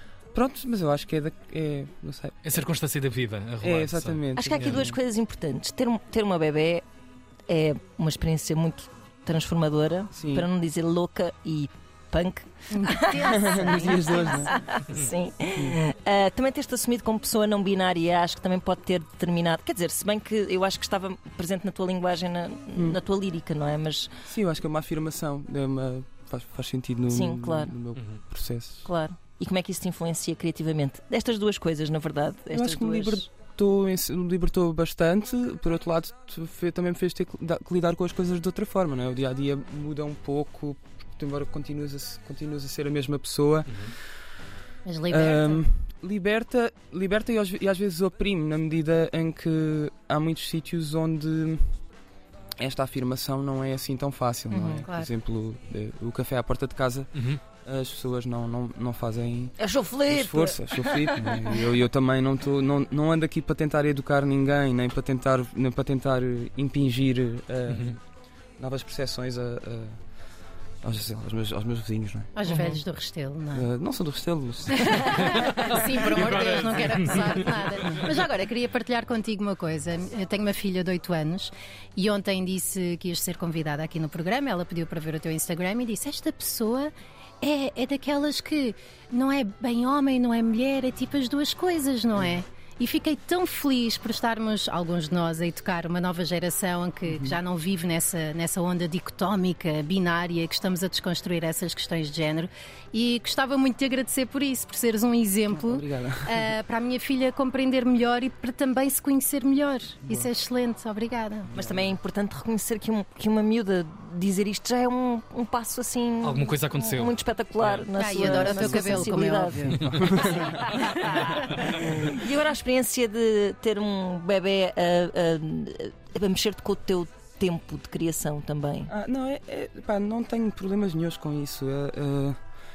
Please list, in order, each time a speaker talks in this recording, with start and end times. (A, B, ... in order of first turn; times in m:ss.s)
0:00.3-0:02.6 A
0:02.4-0:04.9 B
0:03.6-0:05.0 A
0:04.4-0:06.8 C
0:07.5-0:24.1 C
0:10.1-0:10.5 A
0:12.7-0:14.5 D
0:13.3-0:14.5 A
0:22.7-0:23.0 A
0:24.2-0:28.9 A
0:27.1-0:27.7 C
0:28.0-0:28.2 B
0:28.8-0:33.2 C
0:32.5-0:43.9 A
0:43.7-0:43.9 B
0:44.8-0:45.6 D
0:45.1-0:51.8 A
0:52.6-1:08.0 A
0:54.5-0:54.8 C
0:54.8-0:55.1 D
0:57.1-0:57.4 B
0:59.6-1:01.6 C
1:07.7-1:07.9 B
1:08.6-1:10.0 A
1:10.8-1:12.3 A
1:12.4-1:13.6 D
1:12.4-1:12.8 C
1:13.5-1:15.4 A
1:14.7-1:51.5 D
1:15.1-1:18.0 B
1:37.0-1:37.4 A
1:45.5-1:46.5 A
1:51.5-1:51.9 A
1:51.5-2:08.9 C
1:56.2-1:58.7 B
1:57.9-2:00.4 D
1:59.6-2:00.6 A
2:08.9-2:12.4 A